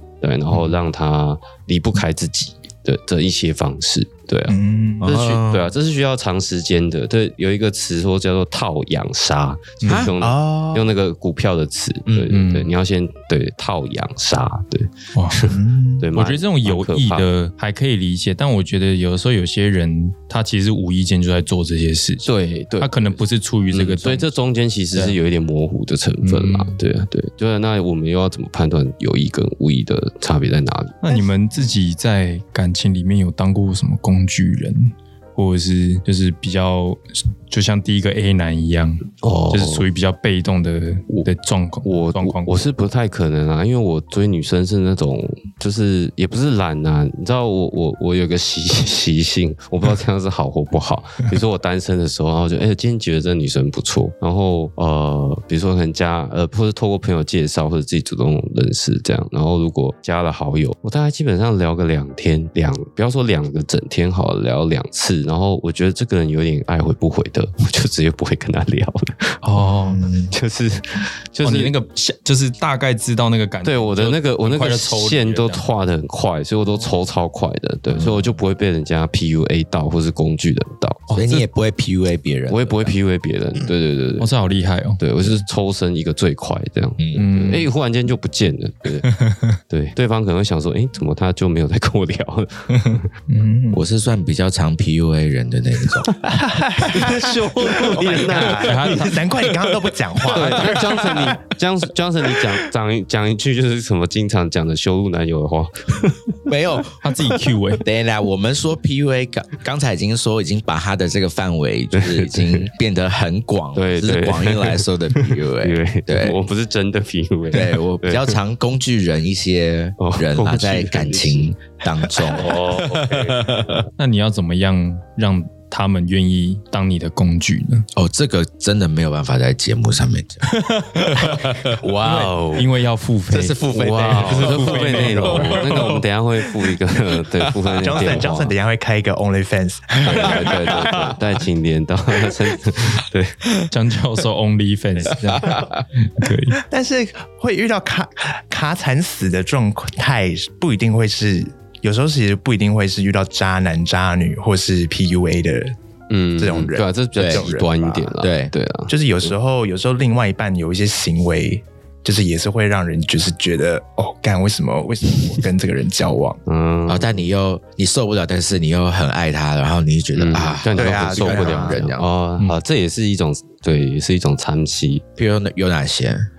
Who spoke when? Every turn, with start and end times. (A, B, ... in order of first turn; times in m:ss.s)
0:00.2-0:17.2 A
0:04.5-0:05.1 B
0:05.0-0:05.7 C
0:09.8-0:10.1 D
0:09.9-0:10.1 C
0:10.2-0:10.9 B
0:12.3-0:12.7 D
0:15.1-0:15.5 D
0:15.5-0:16.1 B
0:16.2-0:22.3 D
0:22.2-0:23.2 A
0:22.8-0:24.3 D
0:23.7-0:31.0 A
0:26.2-0:26.8 D
0:31.0-0:42.6 D
0:39.2-0:39.9 A
0:41.8-1:09.4 A
1:09.4-1:10.0 D
1:09.8-1:10.3 B
1:10.3-1:11.7 A
1:11.4-1:15.6 D
1:13.6-1:21.2 A
1:17.9-1:18.2 C
1:21.1-1:21.4 D
1:21.1-1:23.0 C
1:22.5-1:24.3 A
1:24.2-1:25.0 D
1:25.0-1:29.1 A
1:27.0-1:27.2 C
1:27.2-1:27.7 D
1:29.1-1:29.6 D
1:29.7-1:33.1 A
1:33.3-1:33.8 B
1:33.7-1:36.1 C
1:36.2-1:41.4 B
1:36.8-1:39.2 A
1:37.9-1:38.7 C
1:38.6-1:39.2 D
1:40.2-1:46.2 A
1:46.5-1:47.0 C
1:47.0-1:47.8 D
1:47.8-1:56.4 C
1:51.9-1:52.7 A
1:53.8-1:58.4 A
1:57.5-2:03.8 C
2:00.0-2:01.5 A
2:02.2-2:03.8 A
2:04.0-2:07.9 D
2:07.9-2:10.5 C
2:10.5-2:16.0 D
2:11.1-2:12.4 C
2:12.0-2:12.7 A
2:13.3-2:16.0 C
2:13.7-2:18.6 A
2:17.6-2:18.2 C
2:17.8-2:20.6 B
2:20.0-2:23.4 A
2:23.7-2:26.6 D
2:25.2-2:25.8 C
2:26.6-2:35.8 B
2:36.1-2:39.3 A
2:36.4-2:38.1 B
2:37.2-2:37.5 C
2:38.2-2:38.5 C
2:38.9-2:46.4 B
2:46.5-2:47.2 A
2:46.9-2:52.1 C
2:50.2-2:55.0 A
2:50.8-2:51.8 B
2:55.2-2:56.3 C